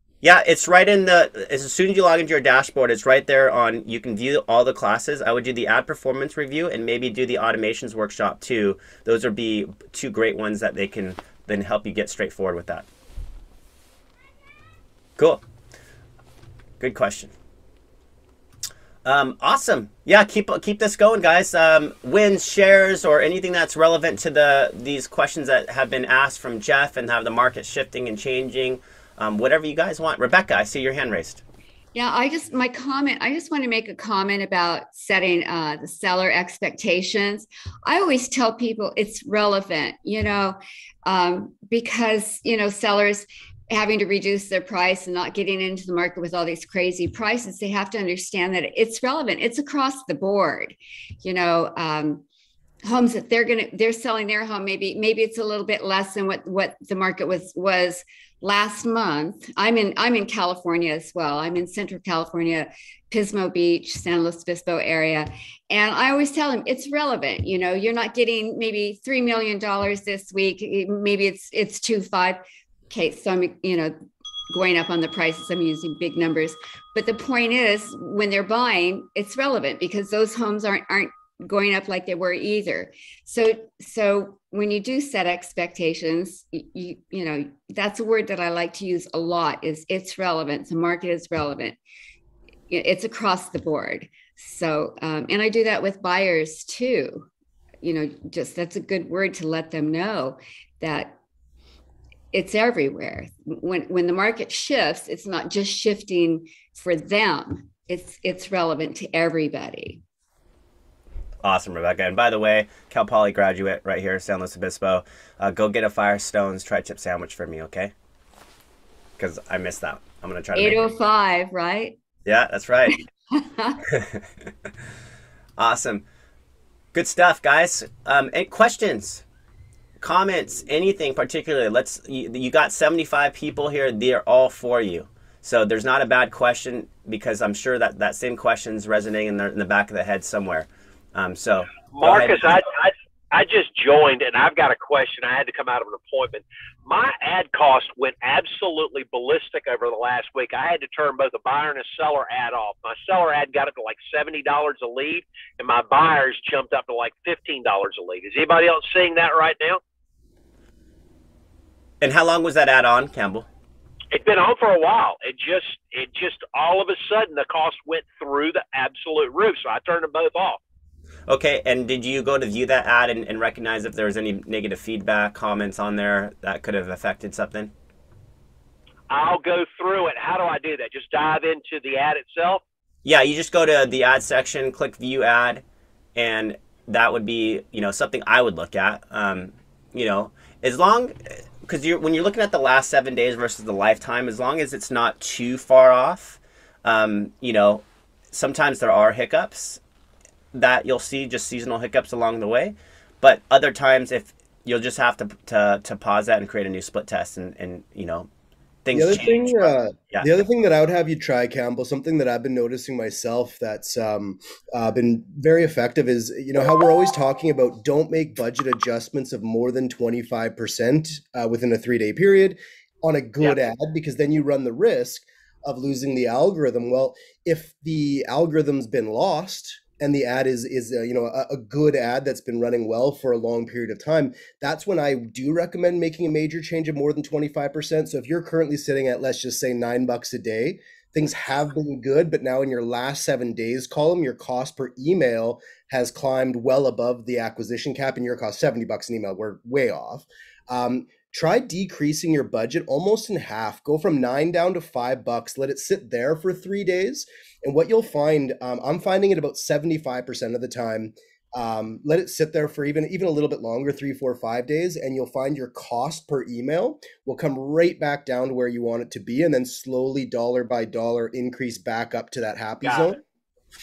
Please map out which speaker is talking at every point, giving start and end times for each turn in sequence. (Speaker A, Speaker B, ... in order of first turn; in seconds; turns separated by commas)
Speaker A: 0.2-12.9, Speaker A: 15.2-15.4, Speaker A: 16.8-17.3, Speaker A: 19.0-31.4, Speaker B: 31.9-52.2, Speaker B: 52.8-74.0, Speaker B: 74.5-91.8, Speaker B: 92.7-97.3, Speaker B: 97.8-101.2, Speaker B: 102.3-110.0, Speaker A: 111.4-117.9, Speaker A: 119.2-120.9, Speaker B: 120.5-122.0, Speaker A: 122.2-123.0, Speaker B: 123.4-123.8, Speaker A: 123.9-124.2, Speaker A: 125.6-126.0, Speaker A: 126.9-129.2, Speaker A: 130.0-142.5, Speaker C: 141.9-159.8, Speaker A: 162.0-163.4, Speaker C: 164.1-170.6, Speaker A: 171.3-177.7, Speaker C: 179.1-182.6, Speaker A: 183.0-185.6, Speaker A: 186.1-199.8, Speaker A: 200.5-208.3, Speaker A: 208.8-210.3, Speaker D: 208.9-273.2, Speaker C: 272.8-273.1